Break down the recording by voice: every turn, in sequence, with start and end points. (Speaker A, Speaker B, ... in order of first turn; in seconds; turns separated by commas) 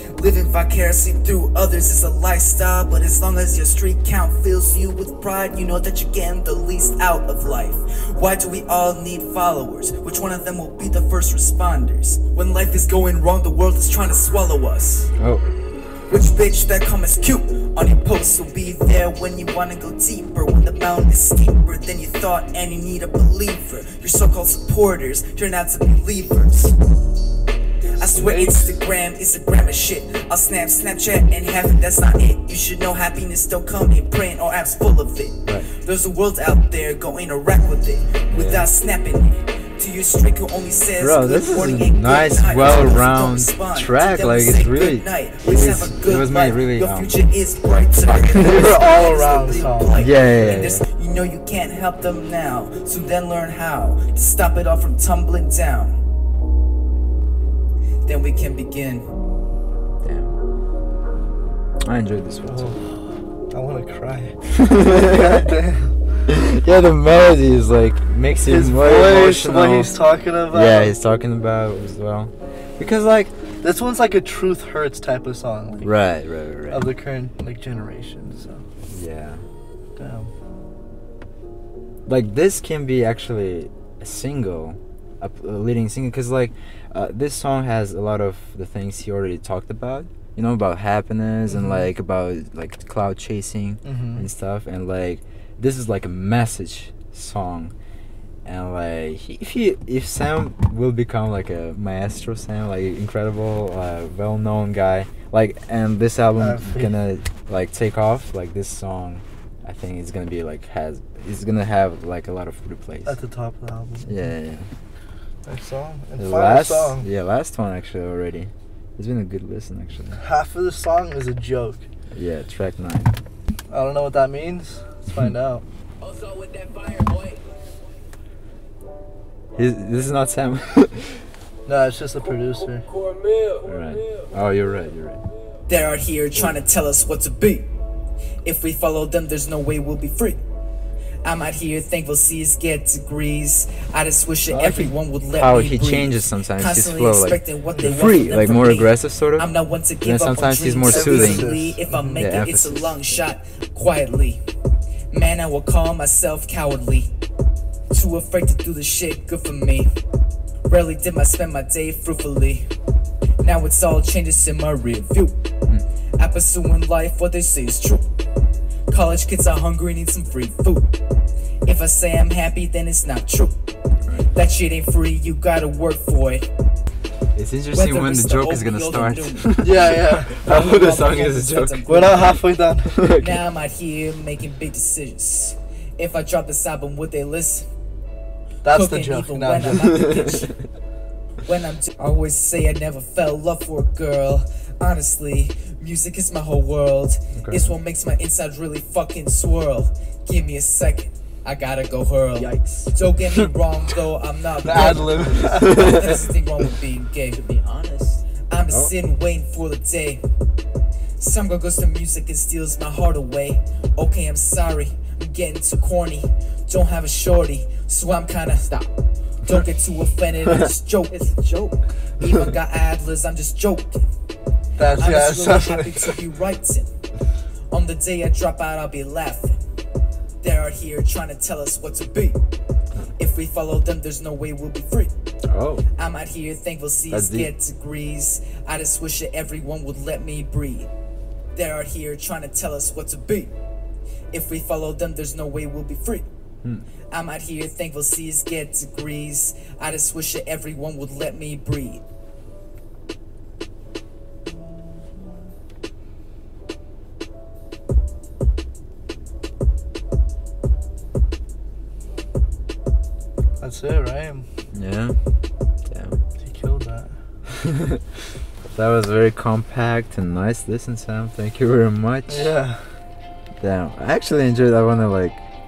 Speaker A: 0.1-15.1, Speaker B: 15.2-15.5, Speaker A: 16.1-26.7, Speaker A: 28.0-56.0, Speaker C: 28.0-28.8, Speaker B: 38.3-38.7, Speaker B: 41.0-47.1, Speaker C: 48.4-50.2, Speaker B: 50.0-50.8, Speaker A: 58.0-59.1, Speaker B: 60.0-60.4, Speaker B: 61.8-62.7, Speaker C: 62.5-66.2, Speaker B: 64.5-65.5, Speaker B: 66.3-70.0, Speaker C: 68.3-70.9, Speaker B: 70.5-73.3, Speaker C: 73.6-76.0, Speaker B: 75.8-76.8, Speaker C: 76.7-78.6, Speaker B: 78.9-79.4, Speaker C: 80.0-80.3, Speaker B: 82.1-97.7, Speaker C: 91.5-91.9, Speaker C: 93.8-94.3, Speaker B: 98.4-113.2, Speaker C: 106.4-106.9, Speaker C: 113.0-114.3, Speaker B: 114.0-114.7, Speaker C: 115.4-117.1, Speaker B: 116.2-120.2, Speaker C: 120.2-121.9, Speaker B: 122.1-123.2, Speaker C: 123.7-125.6, Speaker A: 126.0-127.4, Speaker B: 129.6-131.3, Speaker C: 131.7-132.9, Speaker B: 133.6-135.2, Speaker A: 135.7-137.7, Speaker A: 138.4-140.4, Speaker A: 141.2-154.4, Speaker B: 144.5-149.5, Speaker C: 147.7-147.9, Speaker B: 150.0-151.5, Speaker C: 150.9-152.2, Speaker B: 152.2-153.0, Speaker A: 155.1-157.1, Speaker A: 157.9-159.9, Speaker A: 160.7-162.7, Speaker A: 163.4-165.4, Speaker A: 166.2-168.1, Speaker A: 168.9-170.9, Speaker A: 171.6-173.6, Speaker A: 174.3-176.5, Speaker B: 177.3-181.8, Speaker A: 177.7-179.7, Speaker C: 179.6-180.4, Speaker A: 180.4-182.4, Speaker C: 181.9-182.9, Speaker B: 182.8-183.4, Speaker A: 183.2-187.7, Speaker C: 188.6-190.1, Speaker A: 188.6-190.5, Speaker B: 190.0-190.5, Speaker A: 191.4-210.2, Speaker B: 197.3-197.7, Speaker C: 204.6-206.1, Speaker B: 205.6-206.0, Speaker A: 211.2-218.9, Speaker A: 219.4-224.0, Speaker C: 224.8-226.2, Speaker A: 224.9-226.9, Speaker A: 227.7-229.6, Speaker A: 230.4-232.4, Speaker A: 233.2-235.1, Speaker B: 235.5-235.8, Speaker A: 236.0-240.9, Speaker B: 237.1-237.5, Speaker A: 241.5-243.5, Speaker A: 244.3-246.3, Speaker A: 247.1-252.0, Speaker C: 263.6-264.5, Speaker B: 264.7-265.2, Speaker B: 265.8-266.2, Speaker C: 266.4-267.2, Speaker B: 268.7-272.5, Speaker C: 272.3-273.0, Speaker B: 273.6-275.4